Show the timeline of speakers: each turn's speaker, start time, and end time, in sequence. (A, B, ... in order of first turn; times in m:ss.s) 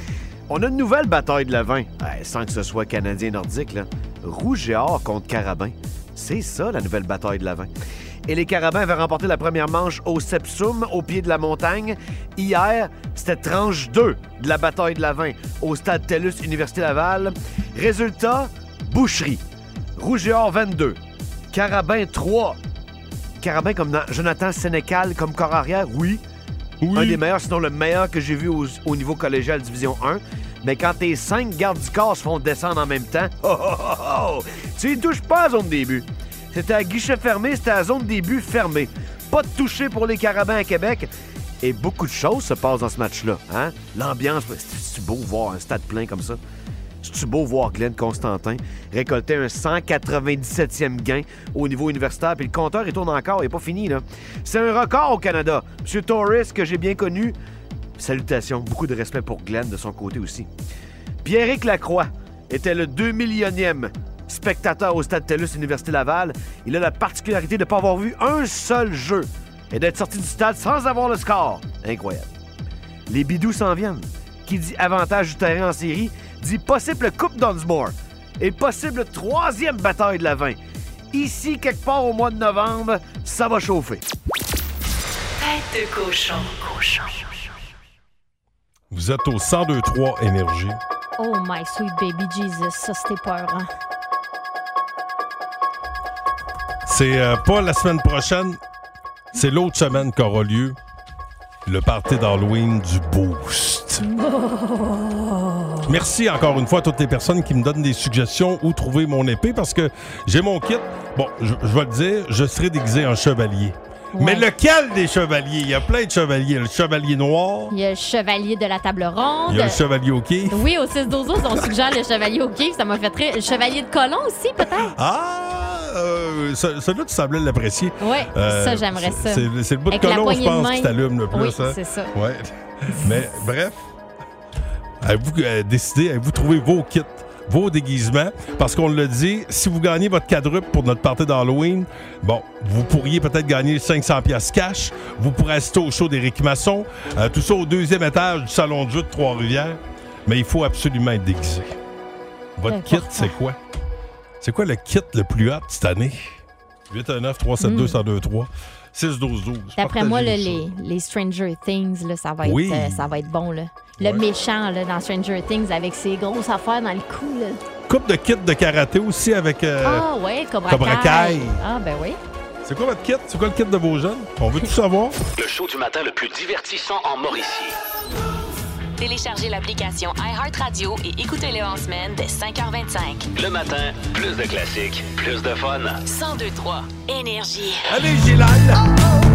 0:00.5-0:07.7 A
0:08.3-0:19.4 A
0:20.0-0:21.0 A
0:21.5-0:22.6 A
0:23.4-0:26.2 A
0:26.8-0:27.2 B
0:26.9-0:41.1 A
0:41.6-0:46.4 A
0:47.0-0:57.4 A
0:58.0-1:00.5 A
1:01.2-1:12.3 A
1:13.1-1:20.6 A
1:21.1-1:24.0 A
1:25.4-1:27.0 C
1:28.9-1:30.8 B
1:31.2-1:33.7 D
1:36.9-1:38.6 B
1:39.3-1:40.8 B
1:41.7-1:44.0 B
1:44.0-1:45.9 D
1:45.9-1:57.7 B
1:54.1-1:54.5 D
1:57.7-1:59.8 D
1:59.5-2:00.6 B
2:00.5-2:04.9 D
2:05.0-2:13.9 B
2:08.0-2:12.1 D
2:15.0-2:31.8 B
2:32.6-2:33.6 B
2:32.7-2:33.4 D
2:34.4-2:36.4 B
2:36.9-2:40.6 B
2:37.6-2:38.0 D
2:39.8-2:47.6 D
2:42.4-2:43.1 B
2:47.9-2:50.1 B
2:49.8-2:52.2 D
2:50.7-2:51.6 B
2:52.6-2:55.2 B
2:55.4-2:57.8 E
2:59.0-3:03.3 C
3:03.4-3:06.0 E
3:06.1-3:07.9 C
3:07.9-3:08.8 B